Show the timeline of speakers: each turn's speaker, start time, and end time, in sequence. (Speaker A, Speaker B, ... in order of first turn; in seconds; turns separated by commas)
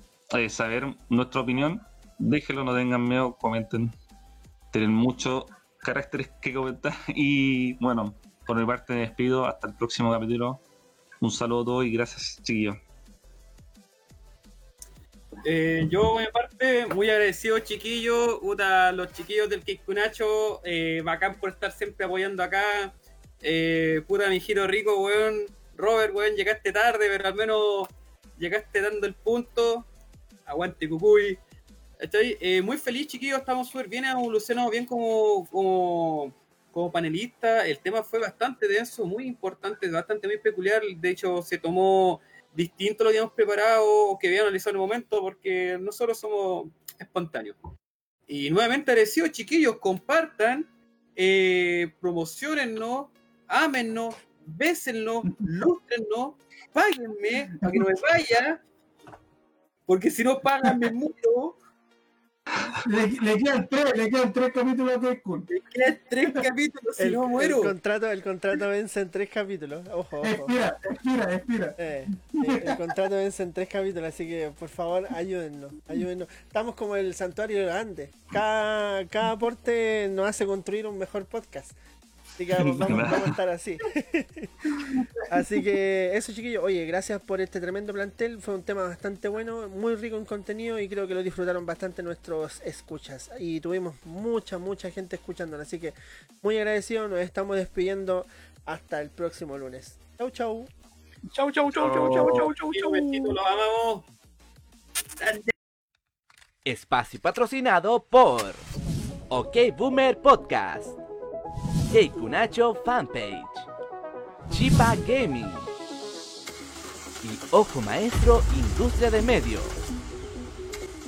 Speaker A: 0.3-3.9, Speaker A: 4.7-10.6, Speaker A: 11.2-12.8, Speaker B: 15.4-29.9, Speaker B: 30.4-31.4, Speaker B: 32.0-47.5, Speaker B: 48.3-58.6, Speaker B: 59.9-61.5, Speaker C: 62.8-65.5, Speaker B: 65.5-67.7, Speaker D: 67.0-70.5, Speaker C: 70.2-72.8, Speaker D: 71.8-81.8, Speaker D: 82.4-84.7, Speaker A: 82.8-83.3, Speaker C: 84.7-85.5, Speaker D: 85.3-100.7, Speaker E: 101.3-103.3, Speaker F: 102.0-102.3, Speaker B: 102.7-104.0, Speaker B: 105.2-105.5, Speaker F: 106.7-108.6, Speaker F: 109.3-111.0, Speaker F: 111.9-113.7, Speaker F: 114.5-115.7, Speaker F: 117.2-119.8